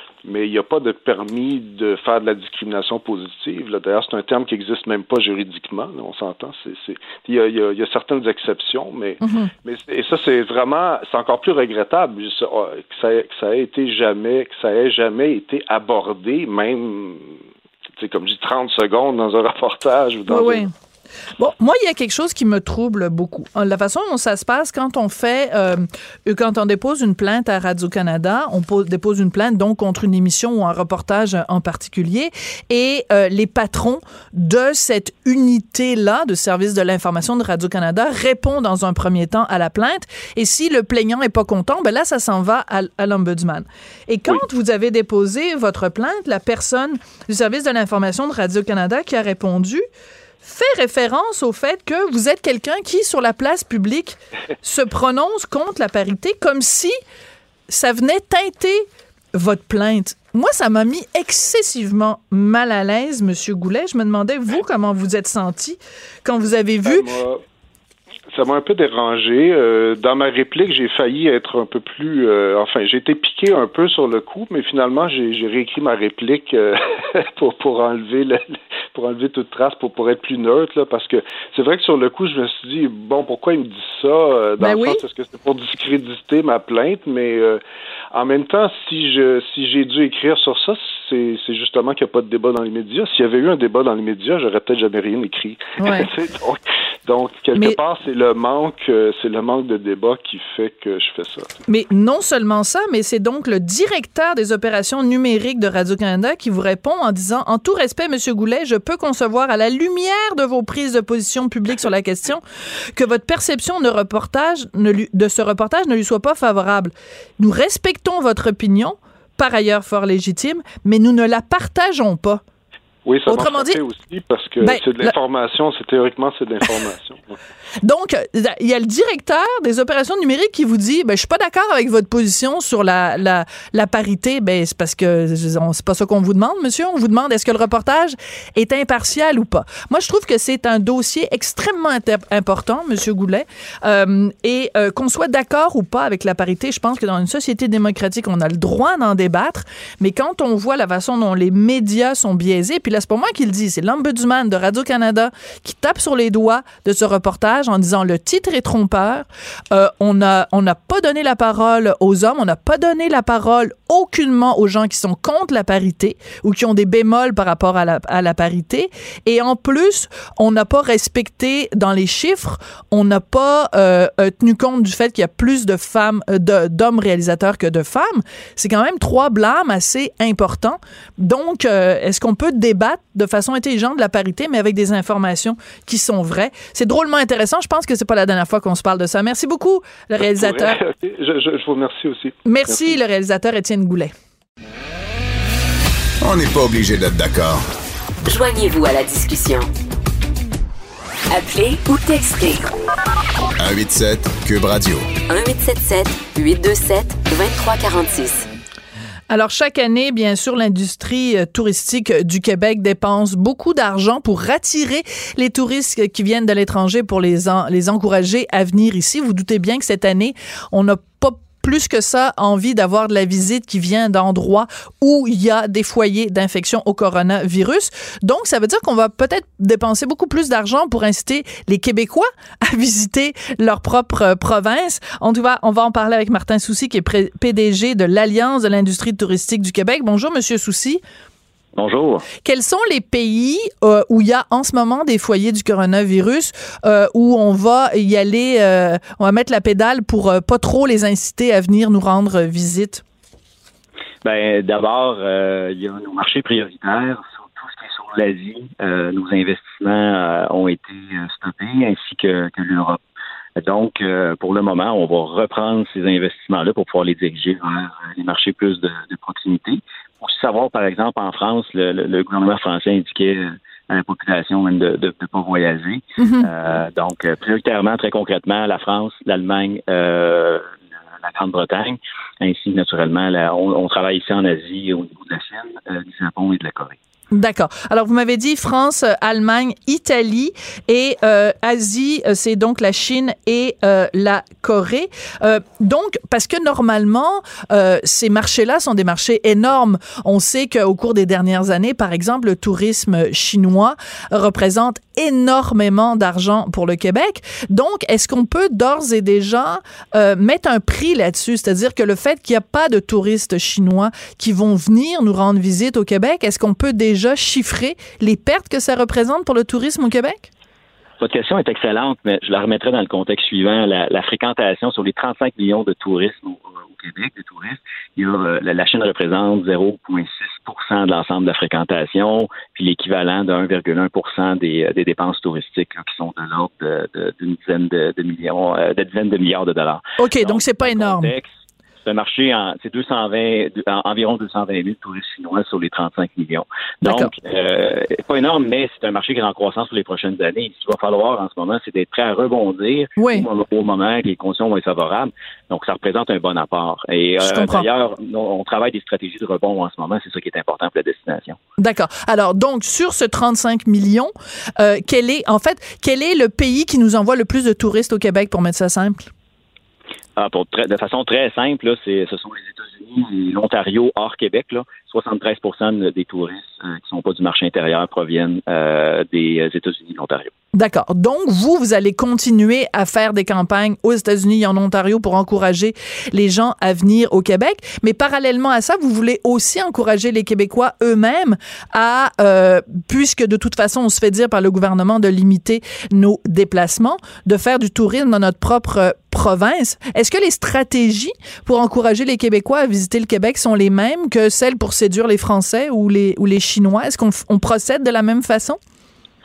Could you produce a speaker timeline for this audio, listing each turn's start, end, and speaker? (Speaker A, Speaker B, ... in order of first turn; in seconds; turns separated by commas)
Speaker A: 0.2-17.4, Speaker B: 9.2-9.5, Speaker A: 18.0-20.7, Speaker B: 20.3-20.7, Speaker B: 21.4-49.8, Speaker B: 50.4-56.9, Speaker B: 57.7-67.1, Speaker A: 66.8-67.4, Speaker A: 68.3-87.6, Speaker B: 84.6-85.0, Speaker A: 88.1-101.5, Speaker B: 95.8-96.1, Speaker B: 101.7-112.4, Speaker B: 113.0-122.4, Speaker A: 123.0-127.4, Speaker B: 123.3-123.8, Speaker B: 124.6-125.1, Speaker B: 127.8-190.8, Speaker A: 190.2-193.0, Speaker B: 192.4-194.1, Speaker C: 196.2-197.6, Speaker D: 198.2-199.7, Speaker D: 201.3-202.7, Speaker C: 203.6-205.1, Speaker D: 205.3-208.5, Speaker B: 209.3-241.0, Speaker E: 241.8-242.3, Speaker B: 242.4-253.0, Speaker E: 254.2-263.0, Speaker E: 263.6-287.0, Speaker B: 276.2-276.5, Speaker B: 287.3-320.5, Speaker E: 321.2-341.5, Speaker B: 340.2-341.4, Speaker E: 342.0-361.6, Speaker B: 347.0-347.3, Speaker B: 353.2-353.5, Speaker B: 357.4-357.9, Speaker B: 361.8-369.3, Speaker E: 370.4-380.5, Speaker B: 380.7-408.8